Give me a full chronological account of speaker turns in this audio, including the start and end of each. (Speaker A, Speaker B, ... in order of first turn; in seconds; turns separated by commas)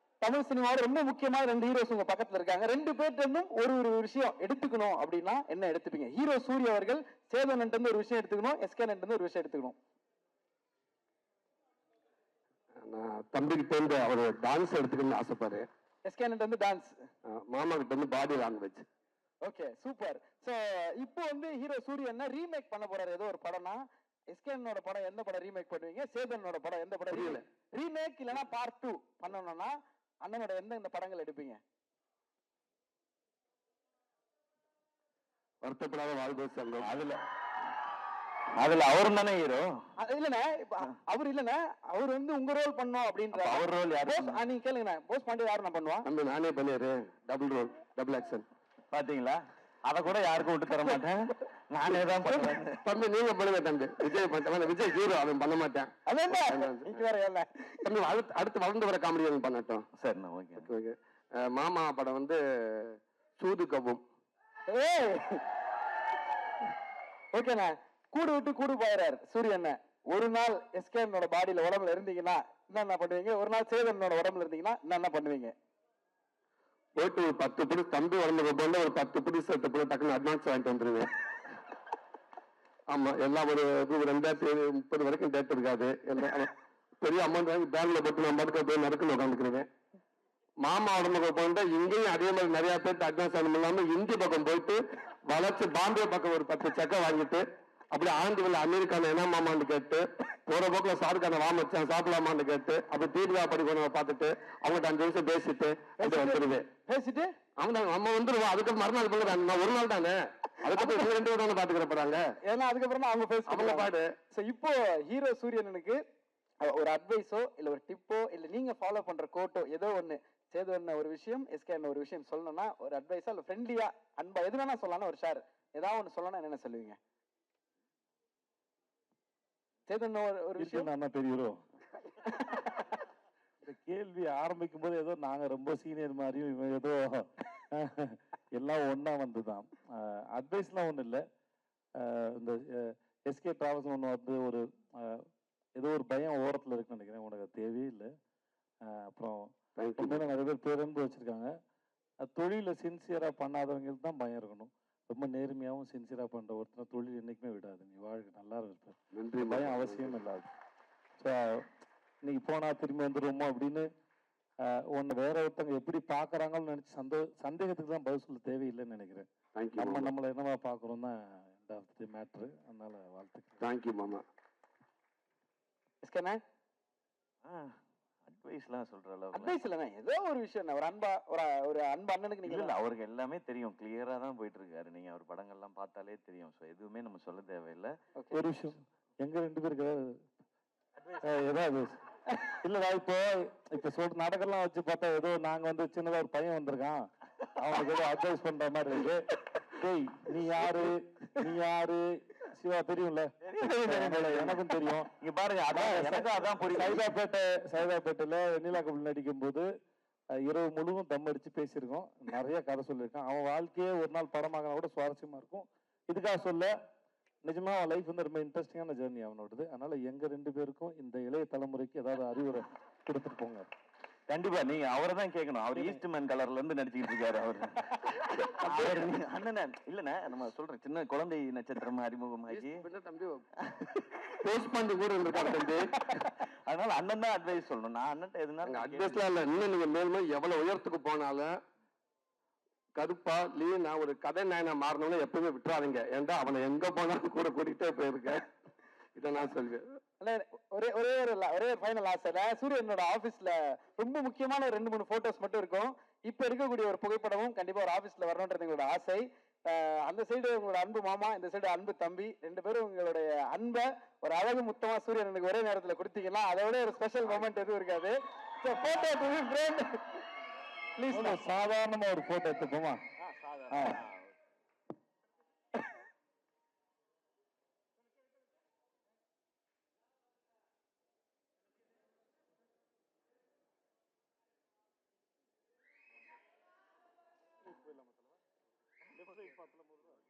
Speaker A: 0.2-9.8, Speaker B: 12.8-15.7, Speaker A: 16.0-16.9, Speaker B: 17.3-18.9, Speaker A: 19.4-31.6, Speaker B: 27.1-27.4, Speaker B: 35.6-37.0, Speaker C: 36.8-37.2, Speaker C: 38.5-39.7, Speaker A: 40.0-46.1, Speaker C: 43.3-44.4, Speaker B: 46.0-48.4, Speaker C: 48.9-52.8, Speaker B: 51.8-57.0, Speaker A: 56.1-57.8, Speaker B: 57.8-59.9, Speaker C: 60.0-60.7, Speaker B: 60.5-64.0, Speaker A: 64.7-65.5, Speaker A: 67.3-75.5, Speaker B: 77.0-81.1, Speaker B: 82.9-89.7, Speaker B: 90.6-106.7, Speaker A: 106.0-107.3, Speaker B: 107.6-112.2, Speaker A: 110.7-111.1, Speaker A: 112.5-116.0, Speaker B: 113.5-114.1, Speaker A: 116.6-127.0, Speaker A: 129.9-130.9, Speaker D: 130.6-131.6, Speaker D: 133.6-141.2, Speaker D: 142.0-145.2, Speaker D: 145.8-148.1, Speaker D: 148.8-149.4, Speaker B: 149.8-150.2, Speaker D: 150.0-151.5, Speaker D: 152.2-160.5, Speaker B: 159.1-160.2, Speaker D: 161.2-161.7, Speaker D: 162.2-163.8, Speaker D: 164.6-173.6, Speaker B: 169.5-170.1, Speaker B: 173.6-174.2, Speaker A: 176.0-176.4, Speaker C: 177.4-179.6, Speaker A: 179.3-182.7, Speaker C: 182.4-187.9, Speaker D: 188.3-190.1, Speaker D: 191.2-197.0, Speaker D: 197.6-205.1, Speaker C: 203.4-207.1, Speaker D: 205.7-209.7, Speaker D: 210.4-216.7, Speaker D: 217.4-223.7, Speaker C: 224.3-232.8, Speaker D: 225.7-226.0, Speaker B: 228.7-229.1, Speaker B: 232.5-233.4, Speaker C: 233.7-234.2, Speaker B: 234.4-236.1, Speaker C: 236.3-239.3, Speaker B: 238.6-241.5, Speaker B: 242.9-248.4, Speaker B: 249.2-249.9, Speaker A: 250.2-270.2, Speaker A: 270.9-271.4, Speaker D: 271.1-273.0, Speaker C: 273.2-274.4, Speaker D: 273.7-274.0, Speaker D: 287.6-288.3, Speaker C: 289.1-289.5, Speaker D: 289.2-290.0